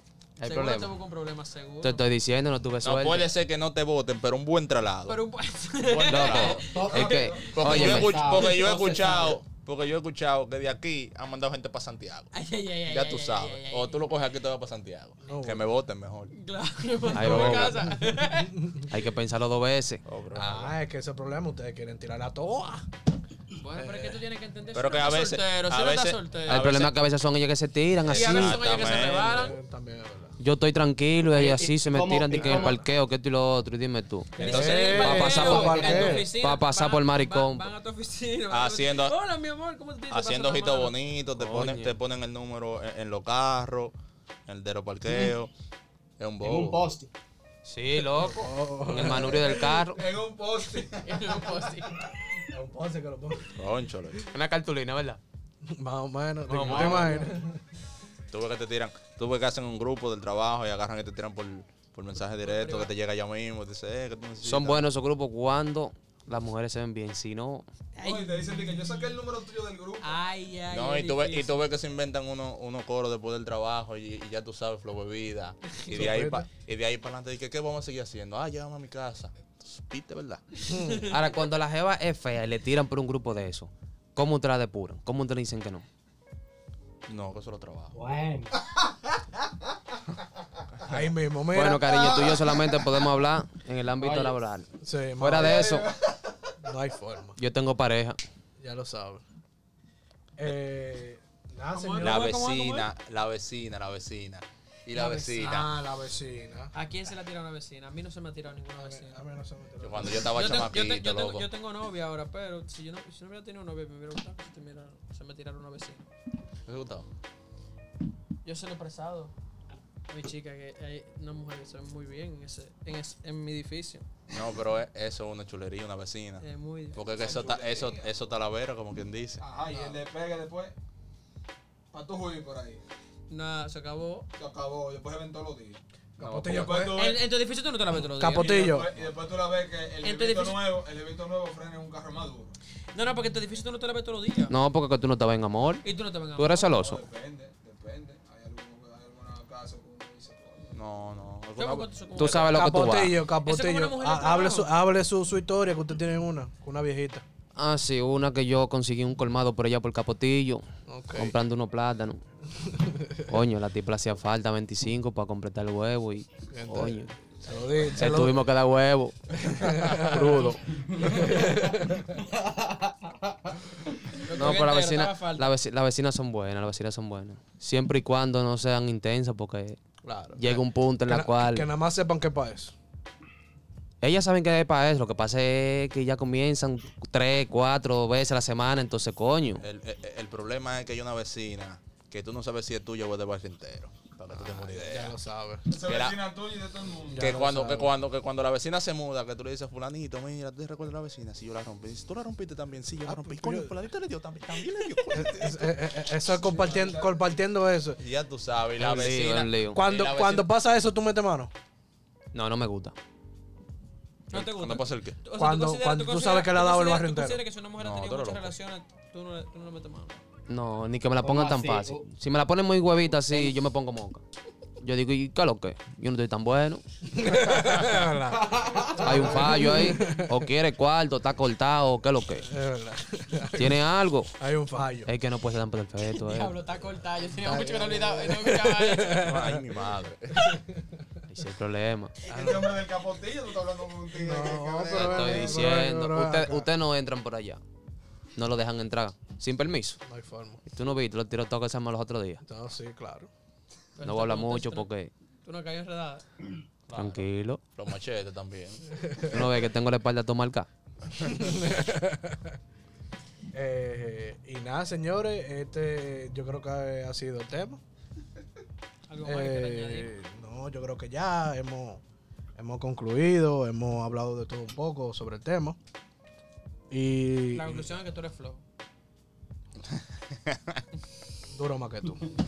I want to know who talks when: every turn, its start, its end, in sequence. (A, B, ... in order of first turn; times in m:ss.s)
0:00.4-0:00.9 A
0:00.4-0:02.0 B
0:01.8-0:03.3 A
0:02.8-0:05.2 C
0:05.1-0:08.6 B
0:05.8-0:12.3 C
0:06.1-0:08.4 A
0:06.6-0:09.4 D
0:06.9-0:07.6 E
0:12.3-0:14.1 B
0:12.8-0:16.3 C
0:15.2-0:15.7 F
0:16.3-0:18.6 B
0:17.1-0:17.9 A
0:17.4-0:17.8 F
0:18.6-0:18.8 F
0:18.9-0:20.0 A
0:20.0-0:20.7 C
0:20.3-0:22.9 F
0:23.6-0:26.7 B
0:23.7-0:24.2 F
0:24.7-0:27.0 C
0:26.5-0:28.9 A
0:28.0-0:29.4 C
0:28.1-0:29.6 B
0:28.6-0:30.4 F
0:30.4-0:37.7 A
0:31.3-0:32.8 D
0:32.4-0:32.8 F
0:34.4-0:35.1 C
0:34.4-0:36.3 F
0:34.4-0:41.0 B
0:35.5-0:36.1 D
0:38.5-0:39.1 C
0:40.1-0:43.9 C
0:41.3-0:42.0 A
0:44.5-0:45.5 C
0:45.1-0:45.3 D
0:46.2-0:46.8 C
0:46.4-0:47.1 D
0:47.6-0:50.0 A
0:48.2-0:49.6 F
0:49.3-0:52.0 E
0:50.9-0:52.1 B
0:52.5-0:53.6 F
0:53.5-0:54.3 C
0:54.3-0:55.2 A
0:55.7-0:57.6 F
0:56.5-0:57.2 A
0:56.7-0:57.2 D
0:58.3-1:04.8 C
1:02.4-1:02.9 B
1:04.4-1:07.7 A
1:07.9-1:09.1 B
1:08.0-1:10.1 E
1:10.0-1:11.7 B
1:10.7-1:20.4 C
1:15.9-1:16.5 F
1:20.7-1:21.0 F
1:20.7-1:21.3 B
1:21.1-1:25.8 A
1:27.1-1:27.9 C
1:27.9-1:28.5 D
1:30.8-1:31.1 C
1:30.9-1:32.1 F
1:31.5-1:35.9 A
1:34.0-1:34.4 D
1:34.8-1:35.6 F
1:35.3-1:36.5 E
1:36.6-1:37.4 F
1:37.4-1:38.2 A
1:38.6-1:39.2 F
1:40.4-1:42.3 F
1:41.7-1:42.9 B
1:42.0-1:45.7 C
1:44.9-1:45.5 B
1:45.4-1:46.7 F
1:46.7-1:49.2 B
1:48.8-1:50.4 F
1:49.8-1:51.4 C
1:50.3-1:56.0 B
1:56.6-1:57.1 C
1:58.4-1:59.3 B
2:00.1-2:04.1 B
2:04.3-2:09.4 C
2:06.4-2:07.1 B
2:07.0-2:08.1 E
2:09.4-2:10.7 E
2:09.7-2:10.0 B
2:11.9-2:12.8 E
2:13.3-2:14.3 B
2:14.4-2:15.8 E
2:16.2-2:17.0 F
2:16.2-2:17.0 C
2:16.5-2:17.2 E
2:16.9-2:18.8 B
2:18.0-2:18.9 F
2:18.3-2:22.6 E
2:20.0-2:20.6 B
2:22.9-2:24.5 B
2:24.5-2:25.8 A
2:25.8-2:26.7 B
2:26.4-2:27.0 A
2:26.7-2:30.8 E
2:30.7-2:32.5 C
2:31.6-2:32.6 B
2:32.2-2:33.2 A
2:32.5-2:37.2 F
2:33.4-2:34.7 B
2:37.6-2:40.6 A
2:40.9-2:41.4 F
2:41.1-2:42.2 A
2:42.6-2:43.3 F
2:43.3-2:47.1 A
2:46.5-2:48.4 F
2:48.0-2:50.7 A
2:49.4-2:52.1 F
2:52.3-2:53.3 D
2:54.2-2:55.5 B
2:54.4-2:59.8 A
3:00.0-3:02.7 F
3:00.3-3:01.7 A
3:04.0-3:09.6 A
3:09.6-3:15.2 C
3:14.3-3:15.7 F
3:15.7-3:17.4 E
3:15.8-3:16.2 C
3:17.1-3:17.9 F
3:17.2-3:25.3 C
3:23.0-3:23.7 F
3:24.6-3:25.0 B
3:25.1-3:28.0 F
3:26.4-3:27.3 E
3:28.0-3:30.5 C
3:28.8-3:29.8 A
3:29.7-3:31.5 F
3:32.3-3:32.9 A
3:34.3-3:35.2 C
3:34.3-3:40.2 B
3:35.4-3:37.4 F
3:37.8-3:38.5 C
3:40.5-3:44.2 A
3:41.2-3:42.1 D
3:44.8-3:46.8 A
3:47.1-3:50.4 F
3:48.4-3:49.2 D
3:49.0-3:52.5 A
3:52.4-3:53.8 F
3:53.5-3:54.3 A
3:54.4-3:55.1 F
3:55.0-3:56.5 A
3:56.1-3:59.4 B
3:57.4-3:59.6 F
3:59.2-4:00.6 C
4:00.4-4:00.8 F
4:01.3-4:02.1 A
4:02.2-4:05.6 E
4:02.3-4:02.8 F
4:04.2-4:06.7 F
4:04.9-4:07.6 A
4:08.4-4:10.0 A
4:10.0-4:10.6 F
4:10.6-4:12.4 A
4:12.4-4:13.3 F
4:14.0-4:14.9 B
4:14.0-4:15.1 A
4:15.4-4:16.2 B
4:16.9-4:19.4 C
4:16.9-4:17.6 A
4:19.2-4:20.7 A
4:21.2-4:22.5 F
4:23.5-4:27.8 F
4:29.1-4:30.1 B
4:29.2-4:32.0 F
4:32.6-4:35.8 F
4:36.9-4:37.9 F
4:37.5-4:38.6 B
4:39.9-4:40.8 C
4:41.5-4:42.3 F